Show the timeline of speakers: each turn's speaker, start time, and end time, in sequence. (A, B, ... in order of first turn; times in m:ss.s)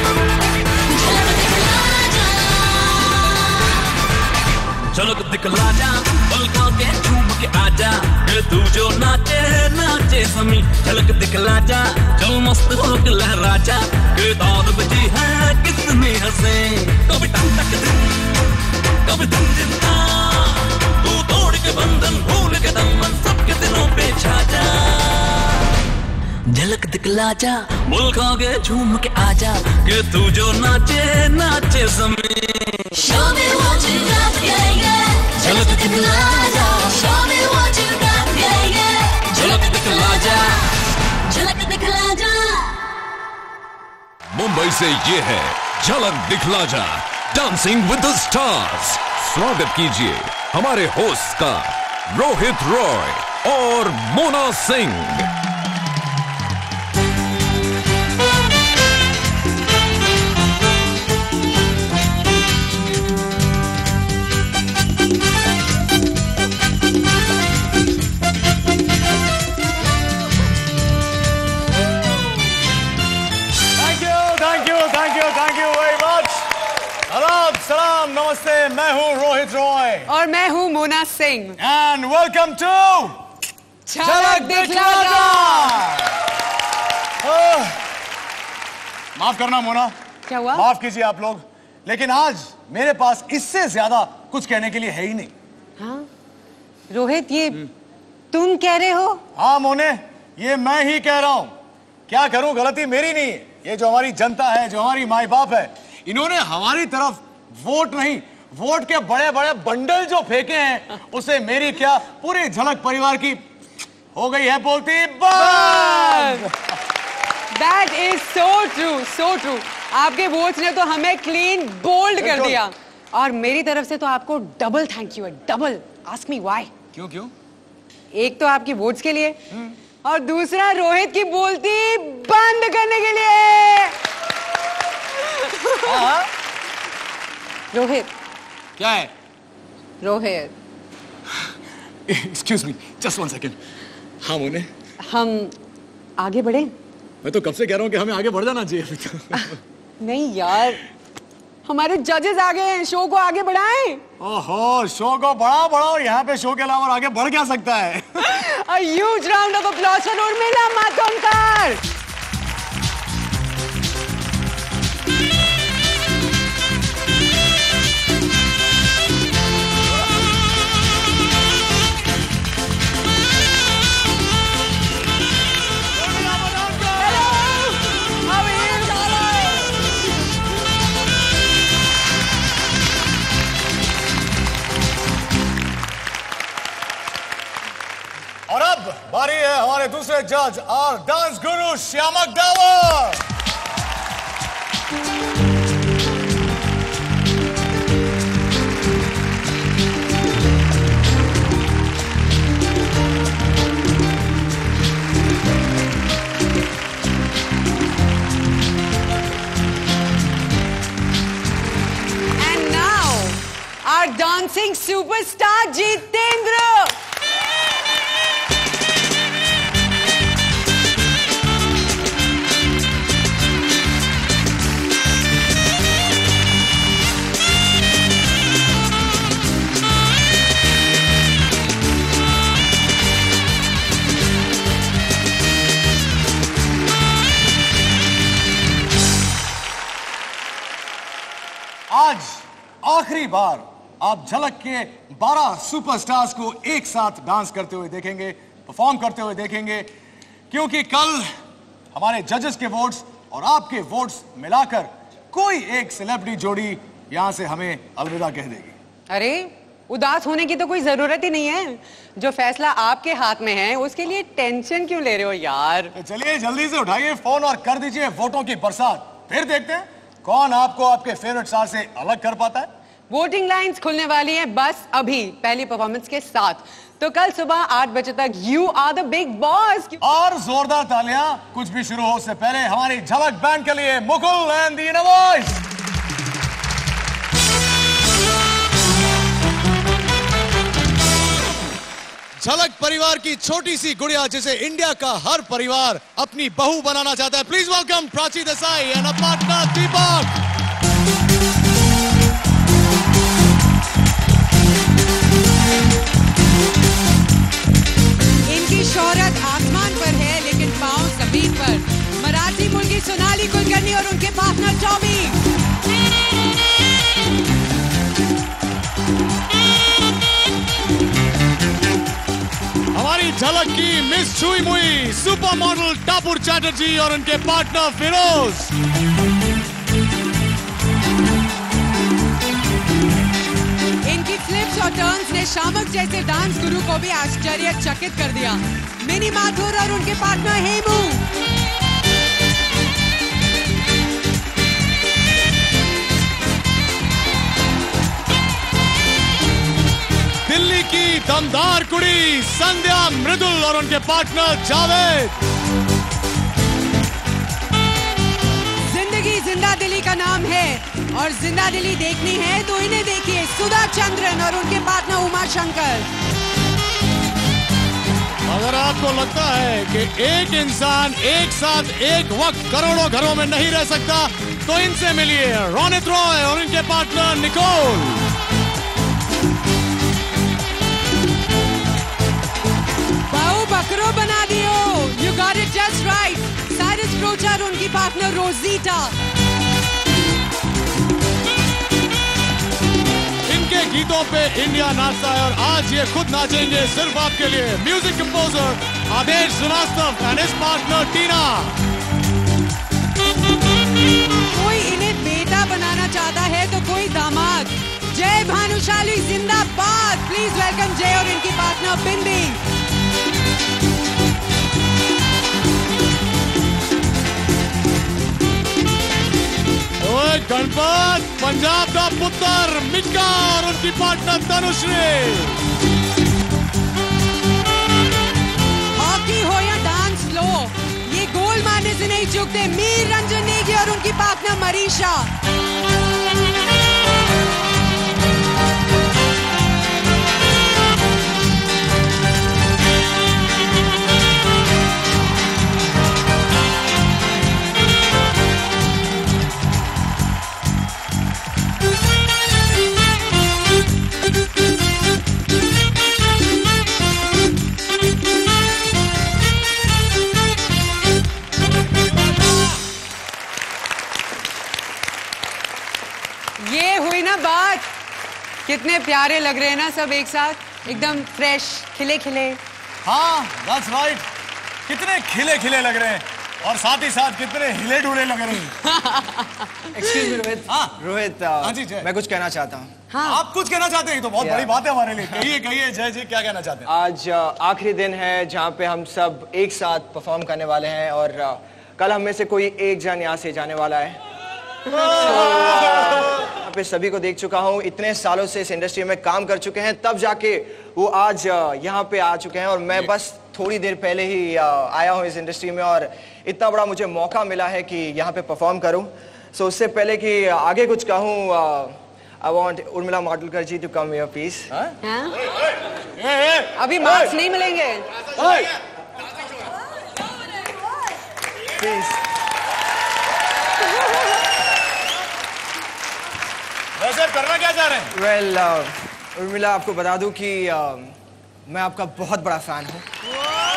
0:00.9-0:03.6 A
0:04.9-0:18.4 B
0:19.0-0:25.4 B
0:26.5-0:32.7 B
0:33.0-0:40.4 A
0:35.4-0:36.1 B
0:39.4-0:40.5 B
0:41.3-0:42.7 A
0:44.3-0:55.3 C
1:13.8-1:16.4 D
1:17.1-1:20.1 D
1:20.1-1:21.6 E
1:21.6-1:23.2 D
1:23.9-1:25.7 E
1:24.0-1:26.1 D
1:27.2-1:27.8 D
1:29.2-1:29.9 D
1:30.3-1:30.6 E
1:30.5-1:35.3 D
1:35.8-1:36.1 E
1:36.9-1:37.6 E
1:38.3-1:39.2 E
1:39.4-1:41.5 D
1:42.1-1:53.4 D
1:54.2-1:56.6 D
1:55.4-1:56.5 E
1:57.5-2:06.7 E
2:02.2-2:02.6 D
2:07.0-2:07.3 D
2:08.1-2:09.4 E
2:10.0-2:14.0 E
2:15.4-2:16.0 E
2:15.8-2:16.3 D
2:17.7-2:18.1 E
2:18.8-2:19.1 D
2:20.0-2:20.5 E
2:22.1-2:23.6 D
2:24.2-2:24.7 D
2:25.1-2:25.5 E
2:26.2-2:26.7 E
2:27.2-2:29.6 D
2:30.0-2:30.8 E
2:31.7-2:34.0 E
2:34.2-2:38.1 D
2:38.2-2:41.8 E
2:55.9-2:57.5 D
2:57.0-2:57.7 E
2:58.3-2:59.3 E
3:08.5-3:13.2 D
3:32.4-3:37.0 E
4:01.9-4:09.9 D
4:10.5-4:11.3 D
4:11.9-4:18.8 D
4:19.1-4:25.9 E
4:26.0-4:32.7 D
4:33.1-4:40.0 E
4:40.0-4:45.6 D
4:52.4-5:00.3 D
5:08.5-5:15.4 E
5:23.0-5:28.7 D
5:34.1-5:41.2 E
5:50.5-5:55.3 D
5:58.9-6:06.1 E
6:08.5-6:18.2 D
6:23.3-6:29.1 E
6:33.5-6:41.8 D
6:44.5-6:52.6 E
7:00.0-7:05.6 D
7:09.0-7:15.3 E
7:46.6-7:47.9 E
7:48.7-7:52.6 E
7:53.0-7:54.2 D
7:54.9-7:58.7 D
7:58.8-8:00.3 E
8:00.1-8:02.9 F
8:00.7-8:01.0 D
8:01.6-8:02.1 D
8:03.1-8:03.4 E
8:03.2-8:06.9 D
8:04.4-8:04.7 F
8:06.8-8:14.2 F
8:14.9-8:34.7 F
8:35.0-8:35.4 E
8:36.2-8:37.3 D
8:36.8-8:38.0 E
8:38.4-8:38.7 D
8:41.8-8:42.2 F
8:47.0-8:48.1 D
8:48.1-8:51.2 F
8:51.7-8:53.0 F